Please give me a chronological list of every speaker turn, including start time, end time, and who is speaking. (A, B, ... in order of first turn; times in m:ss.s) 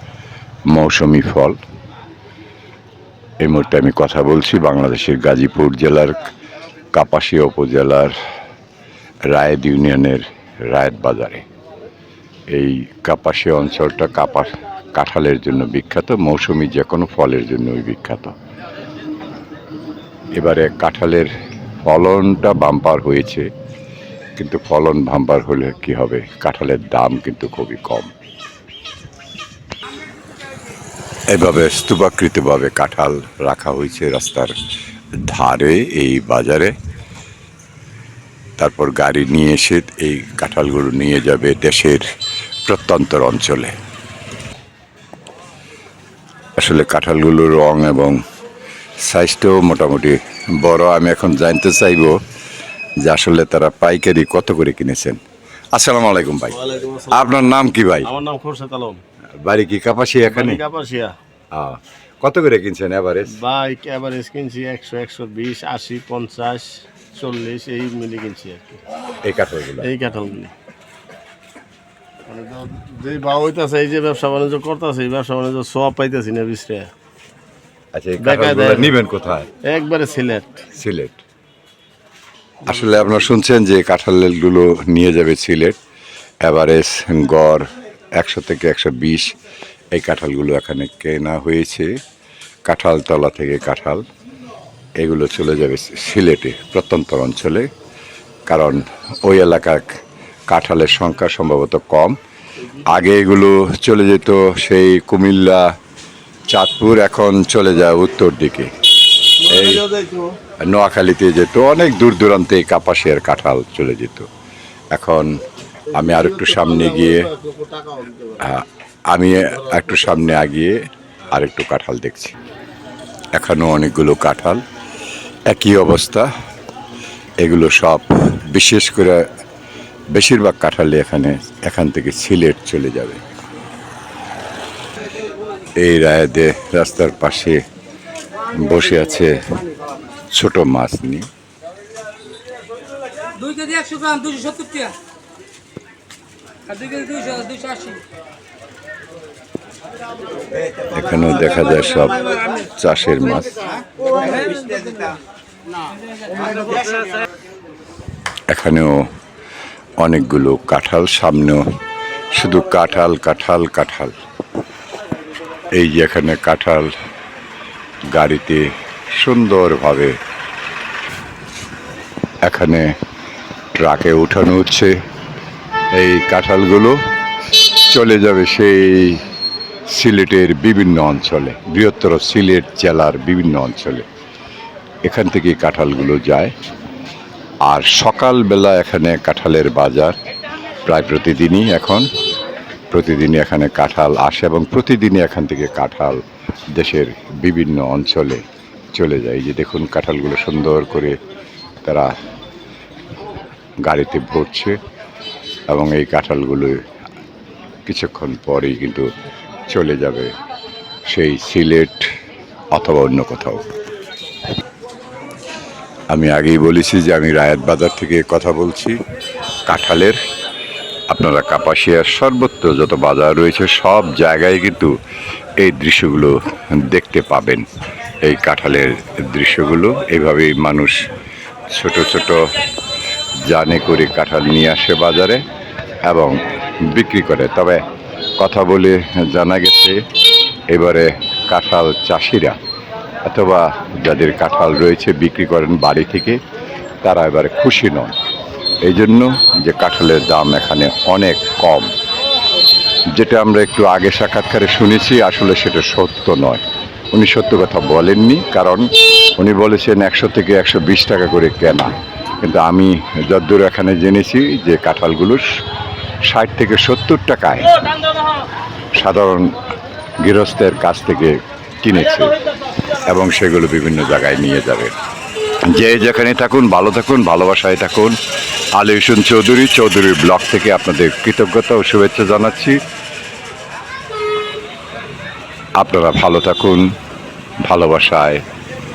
0:00.7-0:01.6 A
0:03.4-0:06.2 A
0:06.9-0:08.2 A
0:09.3-0:11.4 A
0:12.5-0:18.4 A
0:20.4-0:21.3 A
0:21.8-0:23.5 A
0:24.4-0:28.1 A
0:31.3-0:34.5 A
0:35.2-0:36.7 A
0:38.6-0:42.1 A
0:42.7-0:43.7 A
0:46.6-0:48.2 A
0:49.0-0:52.2 A
0:53.0-0:55.2 A
0:55.7-0:56.6 A
0:56.5-0:57.3 B
0:57.1-0:58.1 A
0:58.0-0:59.0 B
0:59.4-1:00.6 A
1:00.2-1:01.1 B
1:01.5-1:03.4 A
1:03.3-1:08.8 B
1:09.2-1:09.9 A
1:09.8-1:10.5 B
1:12.3-1:16.9 B
1:17.9-1:19.5 A
1:18.2-1:19.0 B
1:19.6-1:20.6 B
1:20.7-1:21.2 A
1:22.6-1:25.8 A
1:26.4-1:29.3 A
1:29.9-1:31.9 A
1:32.7-1:34.0 A
1:35.0-1:37.7 A
1:38.5-1:39.9 A
1:40.5-1:42.2 A
1:42.8-1:45.7 A
1:46.5-1:48.7 A
1:49.4-1:49.8 A
1:49.4-1:50.4 B
1:50.6-1:54.3 A
1:54.9-1:55.3 A
1:55.9-1:57.3 A
1:56.0-1:58.5 B
1:58.4-2:02.3 A
2:03.4-2:04.6 A
2:05.5-2:06.3 A
2:07.4-2:09.2 A
2:10.1-2:13.2 A
2:15.8-2:17.6 A
2:18.6-2:19.5 A
2:20.3-2:21.3 A
2:23.4-2:25.0 C
2:26.7-2:28.0 C
2:30.9-2:33.6 A
2:34.4-2:35.0 C
2:38.5-2:39.1 A
2:40.0-2:41.6 A
2:42.3-2:44.2 A
2:45.7-2:46.9 A
2:48.1-2:50.2 A
2:52.4-2:53.0 A
2:53.7-2:54.9 A
2:55.9-2:57.0 A
2:57.6-2:59.2 A
2:59.9-3:04.1 A
3:05.0-3:06.5 A
3:07.7-3:10.2 A
3:10.9-3:12.1 A
3:12.9-3:16.2 A
3:16.8-3:18.4 A
3:19.0-3:21.2 A
3:21.8-3:22.1 A
3:23.8-3:24.8 A
3:25.7-3:26.8 A
3:27.9-3:29.1 A
3:29.7-3:30.3 A
3:31.1-3:32.1 A
3:32.7-3:33.7 A
3:36.1-3:39.0 A
3:39.7-3:40.2 A
3:41.1-3:44.9 A
3:45.6-3:47.6 A
3:48.2-3:51.0 A
3:51.7-3:52.5 A
3:53.5-3:55.4 A
3:56.1-3:57.8 A
3:58.4-4:00.0 A
4:00.7-4:02.6 A
4:03.2-4:06.4 A
4:07.0-4:08.2 A
4:08.8-4:11.9 A
4:13.1-4:21.9 A
4:22.4-4:25.4 A
4:26.3-4:27.8 A
4:29.0-4:29.6 A
4:30.2-4:32.4 A
4:33.1-4:34.9 A
4:35.6-4:38.2 A
4:38.7-4:42.8 A
4:45.8-4:46.9 A
4:47.6-4:48.4 A